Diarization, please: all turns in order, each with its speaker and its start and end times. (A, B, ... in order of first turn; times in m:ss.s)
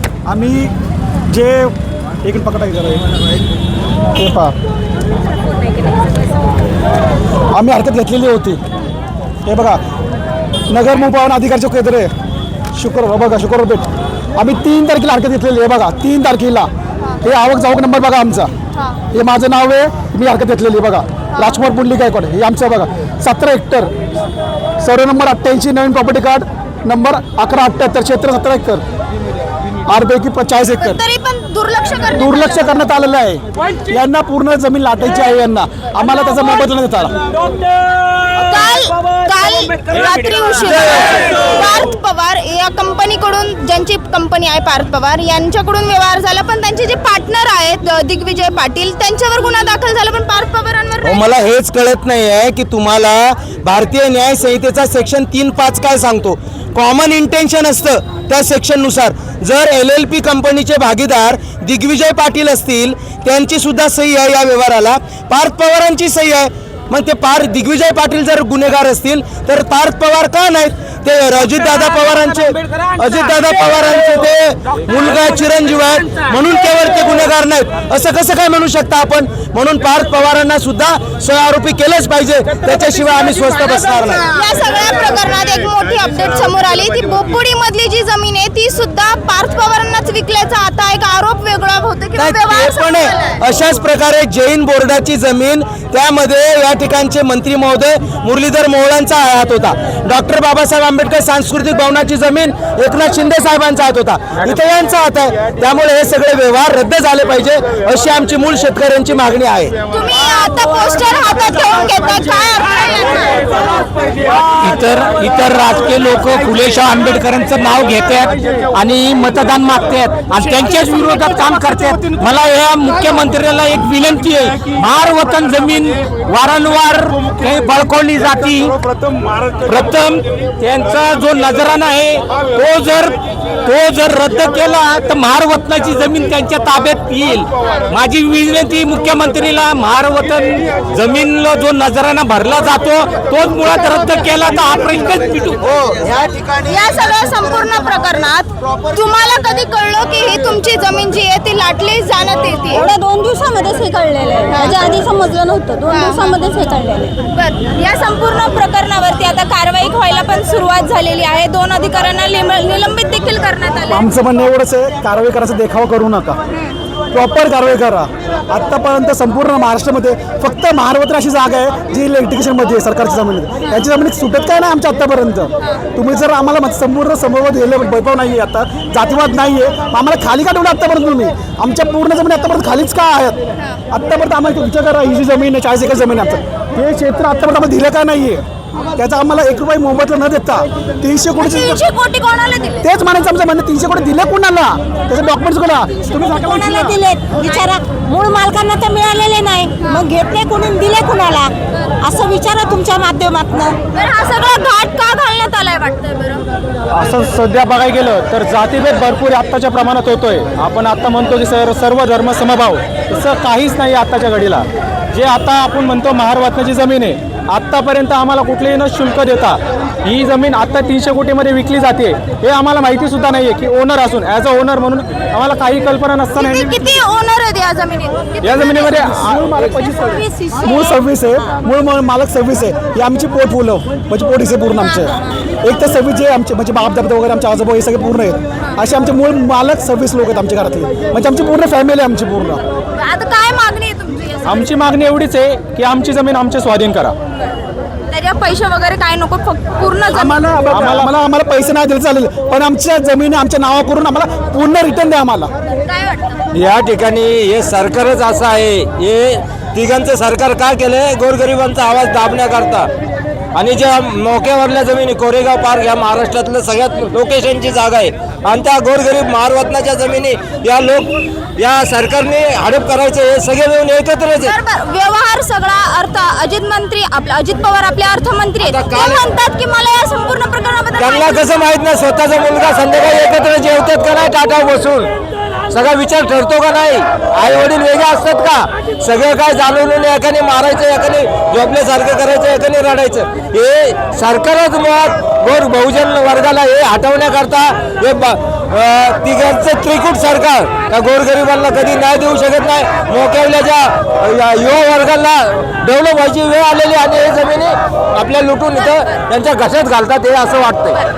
0:00.3-0:00.7 A
0:01.3-0:01.7 A
0:02.2-0:03.0 A
0:04.2-0:04.5 A
0:07.5-0:08.6 A
0:09.4-0:09.8 A
0:10.7-0:12.1 A
0:12.7-0:16.7 A
0:17.2-0:18.5 A
0:19.1-0:23.9 A
0:24.8-0:28.8 A
0:29.9-0:31.0 A
0:30.8-0:32.8 B
0:32.2-0:37.1 A
0:38.3-0:51.2 B
0:51.0-1:24.2 C
1:24.2-1:33.4 B
1:32.2-1:49.7 C
1:49.9-1:53.5 B
1:54.5-2:08.7 D
2:09.6-2:25.6 D
2:26.6-2:32.9 B
2:32.8-2:37.1 E
2:34.5-2:35.0 B
2:35.8-2:36.4 B
2:37.3-2:44.1 B
2:43.9-2:46.4 A
2:47.1-3:03.4 A
3:03.9-3:11.8 A
3:11.4-3:12.8 B
3:12.8-3:17.0 A
3:16.1-3:23.8 E
3:23.9-3:26.5 B
3:26.9-3:46.9 F
3:46.3-3:49.4 B
3:48.4-3:50.1 F
3:49.8-3:50.8 E
3:50.6-4:02.6 A
4:02.9-4:04.7 B
4:04.4-4:07.1 F
4:08.1-4:10.4 B
4:10.1-4:15.5 A
4:10.7-4:11.1 F
4:15.8-4:16.4 B
4:16.5-4:22.8 G
4:23.6-4:34.5 G
4:34.4-4:41.5 B
4:38.6-4:39.2 G
4:41.0-4:45.1 G
4:45.7-5:11.0 G